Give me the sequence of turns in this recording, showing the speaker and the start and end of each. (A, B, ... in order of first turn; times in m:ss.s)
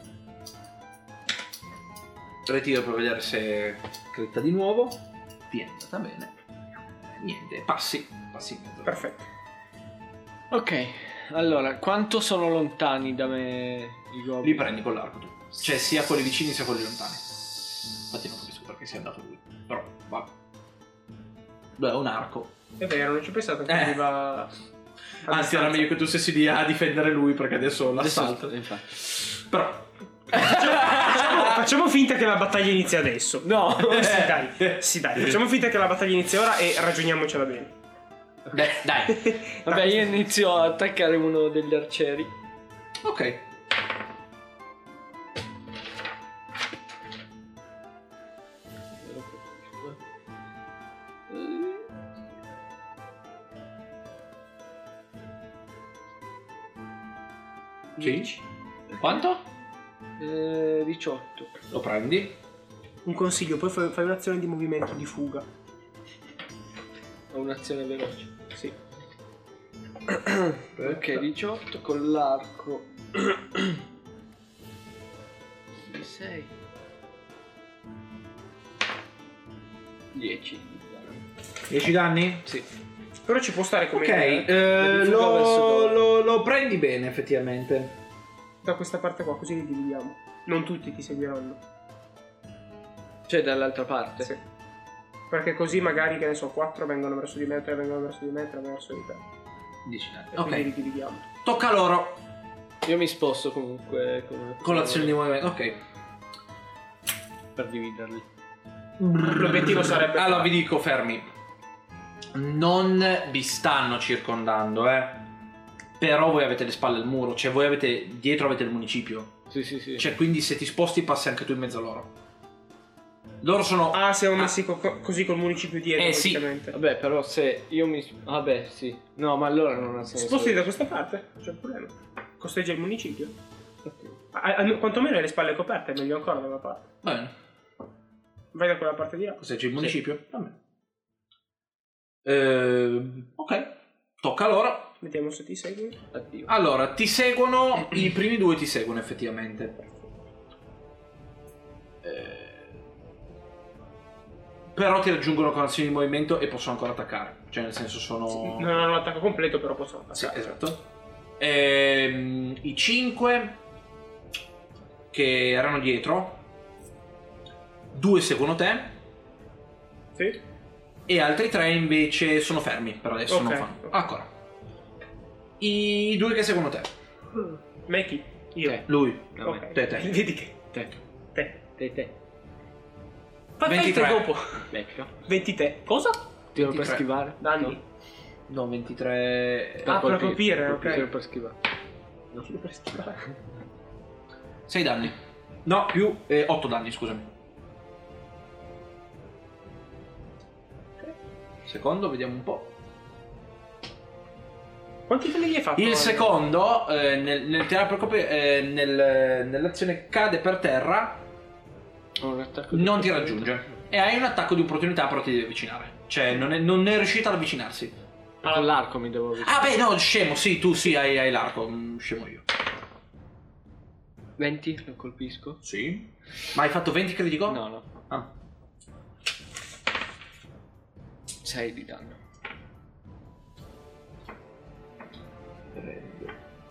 0:02.4-0:06.4 A
0:07.0-0:09.0 A
0:08.8-0:09.2 B
0:10.5-0:14.7 C
0:14.4-0:17.4 A
0:18.0-0:20.3 A
0:21.8-0:22.5 A
0:22.8-0:24.5 B
0:23.7-0:24.0 A
0:25.2-0:25.9 B
0:25.2-0:31.6 A
0:28.0-0:28.9 C
0:30.3-0:37.7 B
0:33.4-0:34.2 C
0:33.8-0:35.4 A
0:38.5-0:39.4 A
0:39.1-0:40.1 B
0:39.7-0:42.3 C
0:43.0-0:43.4 A
0:49.0-0:50.0 C
0:51.3-0:51.8 C
0:58.0-0:58.3 B
0:58.0-0:58.3 A
0:58.9-0:59.2 C
0:59.0-0:59.4 A
1:00.2-1:01.5 C
1:01.7-1:02.4 A
1:03.0-1:05.4 B
1:07.3-1:08.3 C
1:10.1-1:13.8 C
1:10.8-1:11.2 A
1:15.7-1:16.5 C
1:20.1-1:21.2 C
1:21.7-1:22.5 A
1:23.2-1:24.5 B
1:23.9-1:28.0 A
1:24.8-1:26.0 C
1:28.6-1:31.6 B
1:33.3-1:34.3 C
1:35.3-1:39.2 B
1:39.8-1:40.7 A
1:40.3-1:41.2 B
1:41.4-1:42.2 A
1:42.8-1:45.2 C
1:44.6-1:45.8 A
1:47.6-1:48.2 C
1:49.0-1:51.3 A
1:49.2-1:50.5 B
1:52.3-1:55.2 A
1:56.0-1:59.4 A
1:59.5-2:00.1 C
2:00.0-2:02.1 A
2:03.4-2:04.5 A
2:03.9-2:06.7 B
2:06.0-2:06.4 A
2:06.7-2:10.7 C
2:10.2-2:13.3 B
2:13.8-2:14.2 C
2:14.3-2:16.8 B
2:17.0-2:17.3 A
2:18.5-2:19.4 B
2:19.4-2:20.6 A
2:22.2-2:24.9 A
2:25.0-2:26.0 B
2:26.1-2:26.5 C
2:26.5-2:29.8 A
2:32.0-2:32.7 A
2:34.7-2:38.9 A
2:38.3-2:40.6 B
2:40.1-2:40.8 A
2:41.4-2:43.6 A
2:45.1-2:46.4 A
2:47.9-2:48.9 A
2:51.1-2:54.3 A
2:53.3-2:53.9 B
2:55.6-2:56.9 A
2:57.9-2:58.8 B
2:58.6-2:59.7 C
2:58.9-3:00.1 A
2:59.4-3:00.6 B
3:01.3-3:01.6 B
3:01.8-3:02.1 C
3:03.6-3:04.7 B
3:03.6-3:04.3 A
3:04.7-3:05.1 C
3:05.2-3:06.2 B
3:06.5-3:07.8 C
3:06.6-3:07.0 A
3:07.4-3:07.8 B
3:08.5-3:10.0 A
3:09.8-3:11.6 C
3:09.8-3:11.1 B
3:12.3-3:13.2 B
3:14.7-3:17.3 A
3:21.6-3:22.7 A
3:25.1-3:26.4 B
3:25.8-3:31.2 A
3:32.2-3:33.5 C
3:32.7-3:38.0 A
3:38.4-3:39.8 C
3:38.4-3:38.7 B
3:39.4-3:42.4 A
3:44.4-3:45.6 C
3:45.6-3:48.3 A
3:47.5-3:47.8 C
3:51.4-3:52.2 C
3:55.7-3:56.4 A